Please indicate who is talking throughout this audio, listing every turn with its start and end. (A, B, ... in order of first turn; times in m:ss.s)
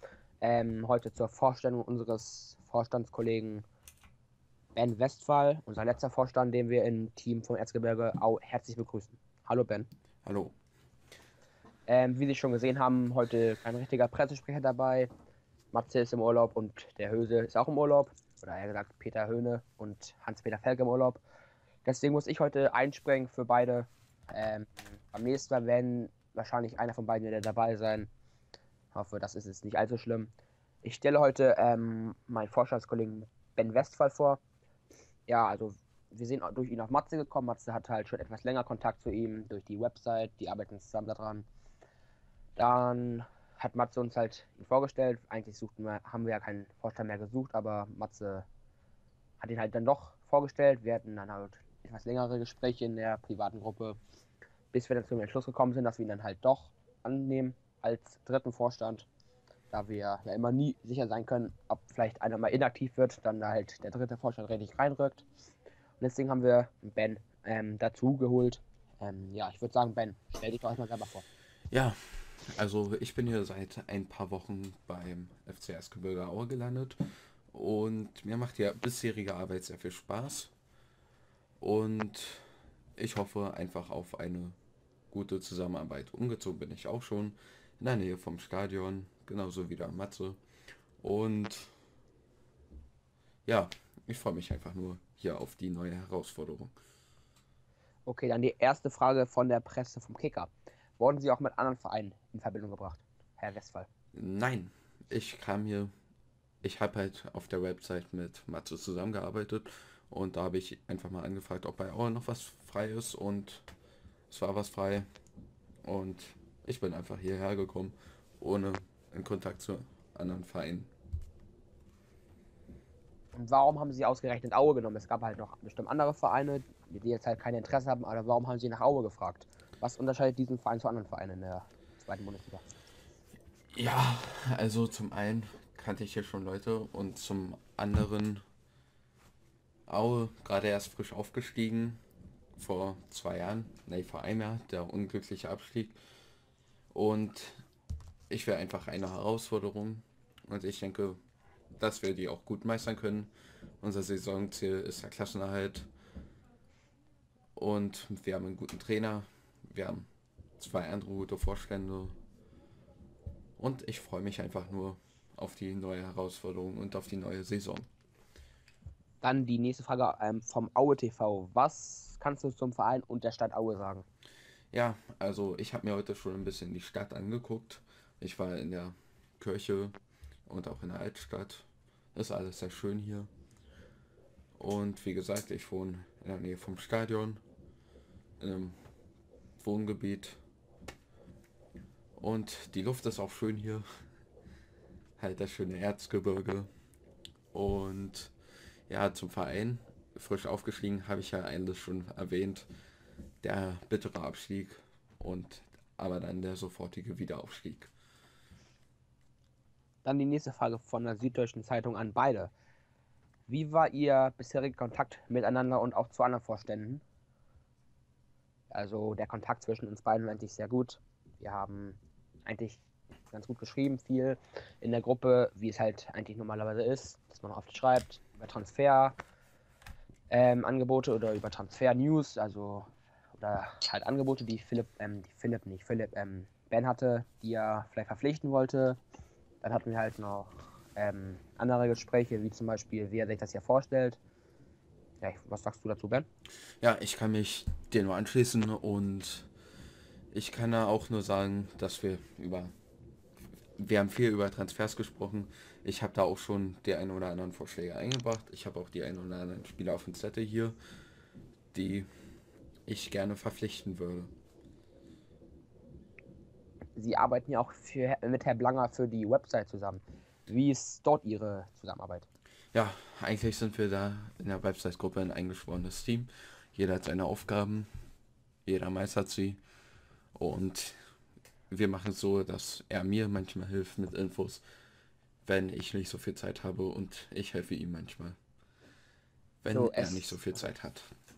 0:00.4-0:03.6 A
0:04.7-0:09.9 A
0:10.2-0:10.5 B
0:11.9-0:15.1 A
0:15.7-0:21.2 A
0:21.8-0:28.1 A
0:28.9-0:30.3 A
0:30.8-0:34.4 A
0:35.3-0:41.5 A
0:42.6-0:48.4 A
0:49.4-0:54.0 A
0:54.7-0:59.1 A
0:59.7-1:05.2 A
1:06.0-1:11.2 A
1:11.7-1:17.0 B
1:17.5-1:20.5 B
1:21.6-1:24.6 B
1:25.1-1:30.4 B
1:31.0-1:31.7 B
1:33.4-1:36.7 B
1:38.1-1:43.9 A
1:44.1-1:45.9 B
1:46.6-1:53.6 B
1:54.3-1:55.0 B
1:55.8-2:00.9 B
2:03.3-2:12.6 A
2:13.7-2:18.4 B
2:19.9-2:22.0 B
2:22.6-2:26.0 B
2:26.9-2:27.5 B
2:28.3-2:31.2 B
2:31.8-2:35.9 B
2:37.6-2:40.1 B
2:40.6-2:42.2 B
2:43.6-2:47.9 B
2:49.2-2:54.0 A
2:54.7-3:00.0 B
3:00.5-3:03.3 B
3:04.6-3:07.4 B
3:08.4-3:08.8 B
3:09.6-3:10.4 B
3:12.2-3:13.8 B
3:15.2-3:16.7 B
3:17.5-3:18.3 B
3:18.9-3:22.7 B
3:23.4-3:27.9 B
3:30.0-3:32.5 A
3:33.5-3:37.0 A
3:38.7-3:49.2 A
3:50.3-3:59.0 A
3:59.6-4:04.2 A
4:05.2-4:06.3 A
4:06.8-4:09.5 B
4:10.3-4:12.7 B
4:13.8-4:20.8 B
4:21.7-4:22.1 B
4:22.9-4:24.3 B
4:27.0-4:32.3 A
4:32.7-4:37.9 B
4:38.6-4:39.6 B
4:40.3-4:41.0 B
4:41.7-4:44.6 B
4:45.4-4:48.4 B
4:49.6-4:51.0 B
4:49.7-4:50.3 A